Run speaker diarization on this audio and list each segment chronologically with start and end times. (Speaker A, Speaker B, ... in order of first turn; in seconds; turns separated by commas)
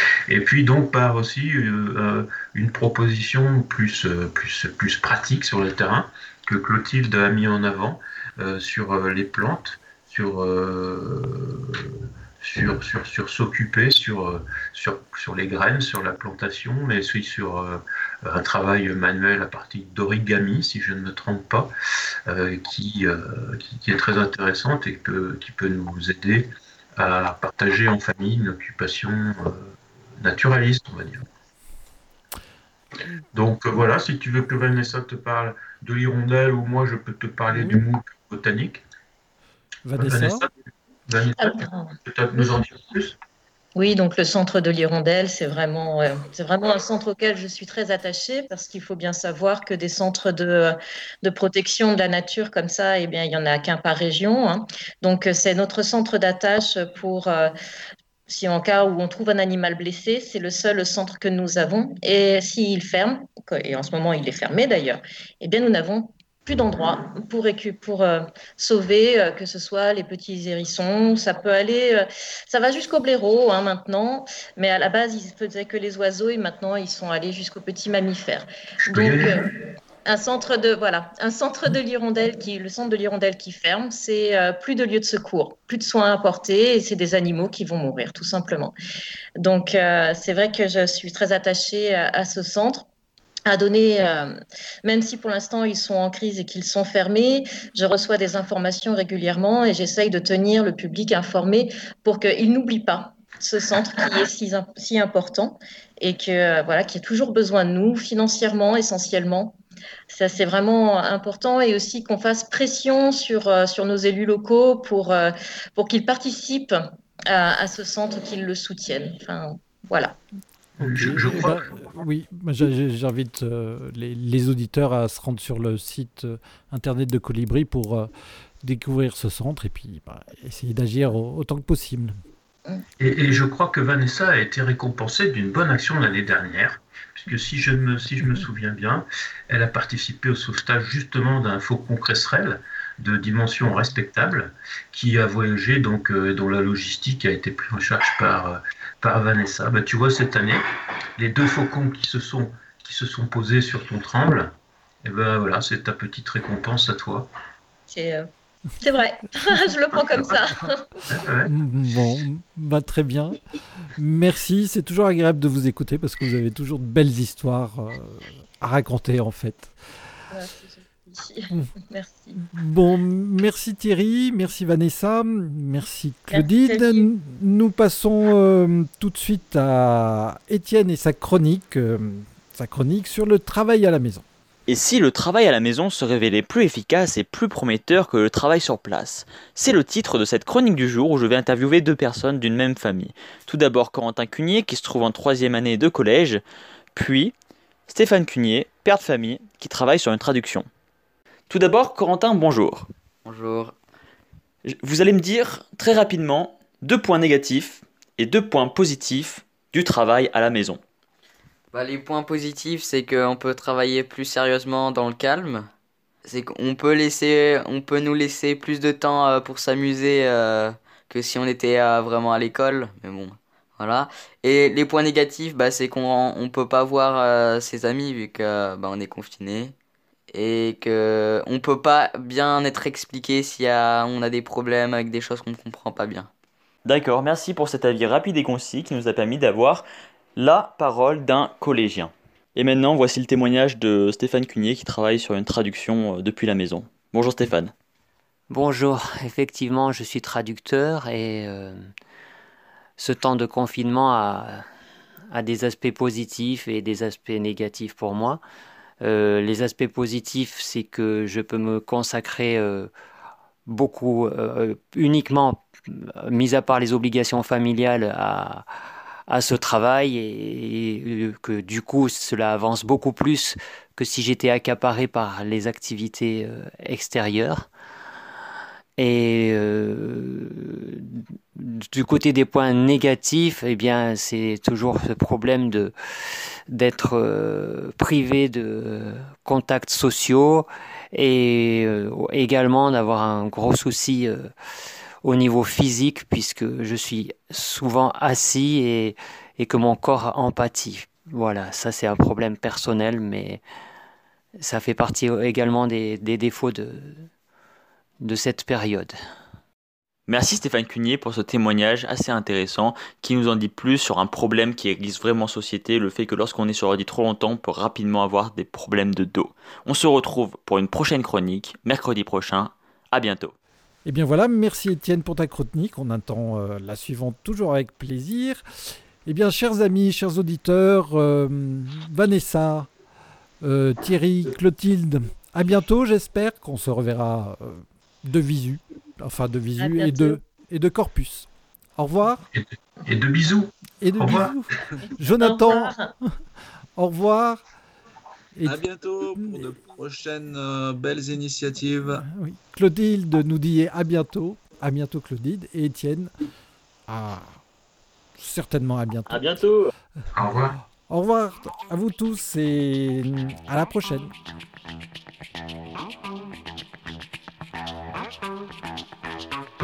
Speaker A: 0.3-21.7, Speaker A: 22.3-31.2, Speaker A: 33.3-38.8, Speaker B: 39.9-40.5, Speaker A: 40.0-40.5, Speaker A: 41.1-43.2, Speaker C: 41.4-42.5, Speaker C: 43.8-57.5, Speaker C: 58.3-79.4, Speaker A: 78.8-79.3, Speaker C: 80.0-88.7, Speaker C: 89.4-92.9, Speaker C: 93.5-94.3, Speaker C: 94.8-109.6, Speaker C: 110.1-120.2, Speaker A: 120.8-121.6, Speaker B: 120.8-128.1, Speaker B: 128.6-132.2, Speaker A: 133.0-150.6, Speaker A: 151.2-154.5, Speaker A: 155.0-157.3, Speaker C: 157.9-158.3, Speaker C: 158.8-160.9, Speaker A: 161.1-161.5, Speaker B: 161.4-163.4, Speaker B: 164.0-169.7, Speaker C: 170.3-172.4, Speaker B: 172.5-184.2, Speaker C: 176.3-177.1, Speaker D: 184.7-196.4, Speaker D: 196.9-197.3, Speaker D: 197.9-200.7, Speaker D: 201.5-202.9, Speaker E: 203.2-203.8, Speaker D: 204.7-210.8, Speaker E: 211.7-215.7, Speaker E: 216.2-229.7, Speaker E: 230.3-236.3, Speaker D: 236.8-247.7, Speaker F: 248.5-251.9, Speaker F: 253.0-254.6, Speaker F: 255.3-258.4, Speaker F: 259.0-262.9, Speaker F: 263.7-277.7, Speaker F: 279.0-303.6, Speaker F: 304.6-307.3, Speaker F: 308.2-309.1, Speaker D: 310.3-323.5, Speaker B: 324.0-328.6, Speaker B: 329.2-332.9, Speaker B: 333.6-342.4, Speaker C: 339.8-340.4, Speaker A: 342.5-344.5, Speaker B: 344.0-346.3, Speaker C: 345.4-346.1, Speaker B: 347.0-347.6, Speaker B: 348.5-348.8, Speaker G: 348.6-352.2, Speaker B: 349.3-349.7, Speaker B: 352.3-356.3, Speaker B: 357.1-357.6, Speaker B: 358.4-359.6, Speaker D: 359.3-359.9, Speaker A: 360.3-360.8, Speaker B: 361.1-364.3